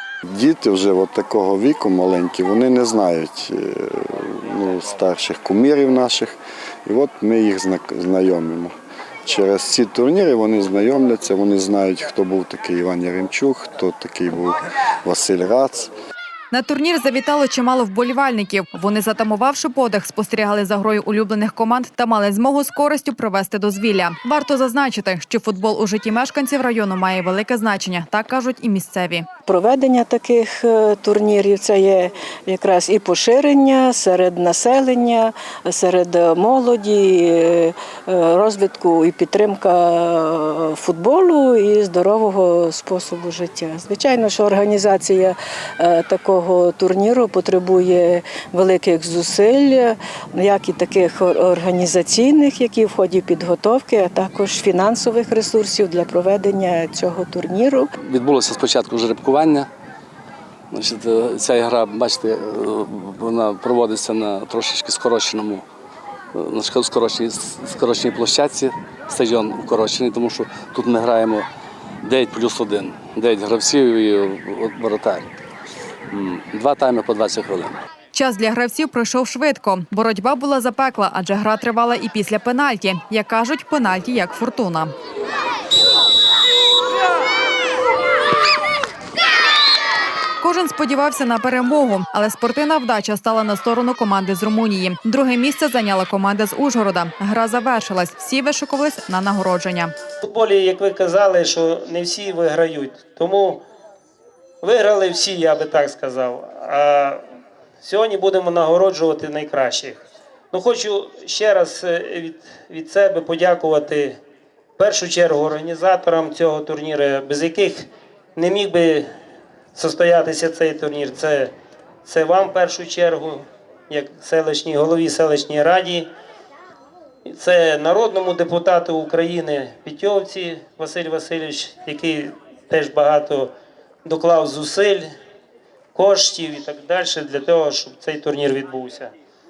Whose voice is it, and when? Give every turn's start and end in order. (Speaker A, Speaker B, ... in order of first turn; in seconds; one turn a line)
Speaker A: 0.3-8.7
Speaker A: 9.2-15.9
Speaker B: 16.5-29.3
Speaker C: 29.5-57.9
Speaker D: 58.0-59.7
Speaker D: 60.7-65.7
Speaker D: 66.3-71.5
Speaker D: 72.0-75.3
Speaker D: 76.1-77.8
Speaker B: 78.1-84.9
Speaker B: 90.4-99.9
Speaker E: 100.2-103.6
Speaker E: 104.6-107.2
Speaker E: 107.8-114.2
Speaker E: 114.8-117.8
Speaker E: 118.3-119.1
Speaker E: 119.7-121.5
Speaker E: 122.0-126.1
Speaker E: 127.2-133.5
Speaker E: 134.0-135.1
Speaker E: 135.9-139.1